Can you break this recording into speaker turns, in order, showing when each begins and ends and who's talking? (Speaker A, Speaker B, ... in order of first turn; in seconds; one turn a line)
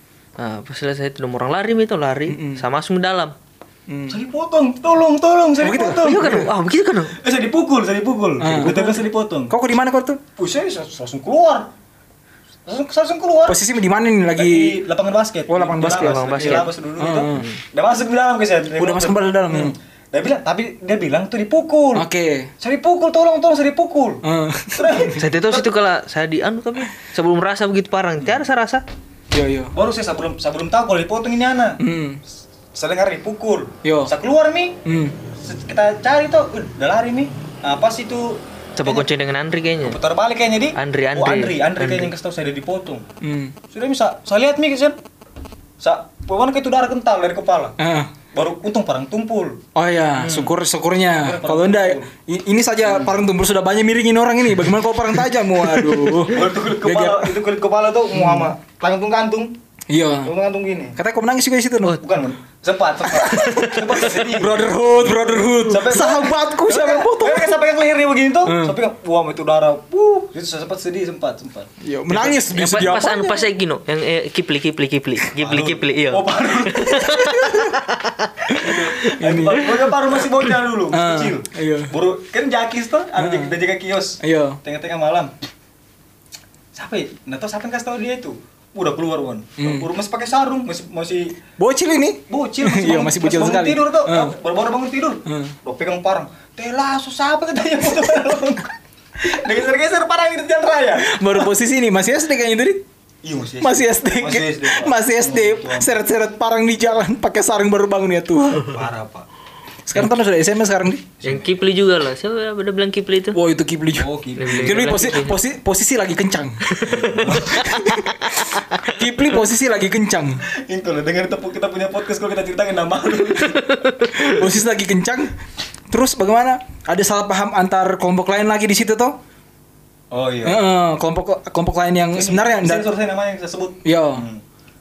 Speaker A: 0.4-3.3
Speaker B: 2.3-2.6
Speaker B: 3.9-4.2
Speaker C: 4.1-6.5
Speaker B: 5.6-6.5
Speaker A: 6.0-7.2
Speaker C: 7.2-9.5
Speaker B: 8.4-9.0
Speaker A: 8.6-9.0
Speaker B: 9.5-10.2
Speaker C: 10.4-11.7
Speaker C: 12.7-13.6
Speaker B: 13.4-14.8
Speaker C: 14.3-22.1
Speaker B: 15.5-17.4
Speaker A: 15.8-16.7
Speaker A: 17.3-17.6
Speaker B: 18.8-19.8
Speaker B: 21.9-22.5
Speaker C: 22.6-25.7
Speaker B: 24.2-25.1
Speaker A: 25.1-28.8
Speaker B: 29.3-29.7
Speaker C: 29.7-31.8
Speaker B: 31.8-32.2
Speaker C: 32.7-34.8
Speaker B: 33.8-34.1
Speaker B: 34.8-35.1
Speaker C: 35.4-39.1
Speaker A: 38.8-40.0
Speaker C: 39.8-43.0
Speaker A: 40.8-42.1
Speaker B: 43.2-43.5
Speaker C: 43.7-45.0
Speaker C: 45.8-47.8
Speaker B: 47.8-48.1
Speaker C: 48.3-49.6
Speaker B: 49.7-57.4
Speaker C: 50.2-50.5
Speaker C: 51.1-52.1
Speaker C: 56.3-59.5
Speaker B: 58.1-58.5
Speaker B: 59.9-60.3
Speaker C: 60.2-61.0
Speaker B: 61.0-62.0
Speaker C: 62.0-71.7
Speaker B: 63.0-67.6
Speaker A: 63.4-63.7
Speaker B: 68.4-68.8
Speaker B: 71.8-73.5
Speaker A: 72.1-79.4
Speaker C: 75.3-77.2
Speaker B: 77.0-77.8
Speaker B: 78.5-79.7
Speaker C: 78.5-85.3
Speaker B: 80.9-81.9
Speaker B: 83.2-83.5
Speaker B: 84.2-84.6
Speaker C: 86.7-91.4
Speaker B: 89.6-89.9
Speaker B: 91.6-94.3
Speaker C: 92.3-101.3
Speaker B: 95.2-95.5
Speaker B: 101.0-102.8
Speaker C: 103.2-106.0
Speaker B: 103.6-108.8
Speaker C: 108.7-109.3
Speaker B: 109.8-111.1
Speaker C: 111.2-111.6
Speaker A: 111.2-113.4
Speaker B: 113.3-120.4
Speaker C: 114.0-114.8
Speaker A: 114.3-115.4
Speaker A: 116.7-118.9
Speaker C: 116.9-117.8
Speaker C: 120.5-123.8
Speaker A: 123.5-124.4
Speaker B: 124.1-125.3
Speaker B: 125.9-129.2
Speaker C: 130.1-130.7
Speaker B: 130.4-132.9
Speaker C: 132.1-134.4
Speaker B: 133.8-134.2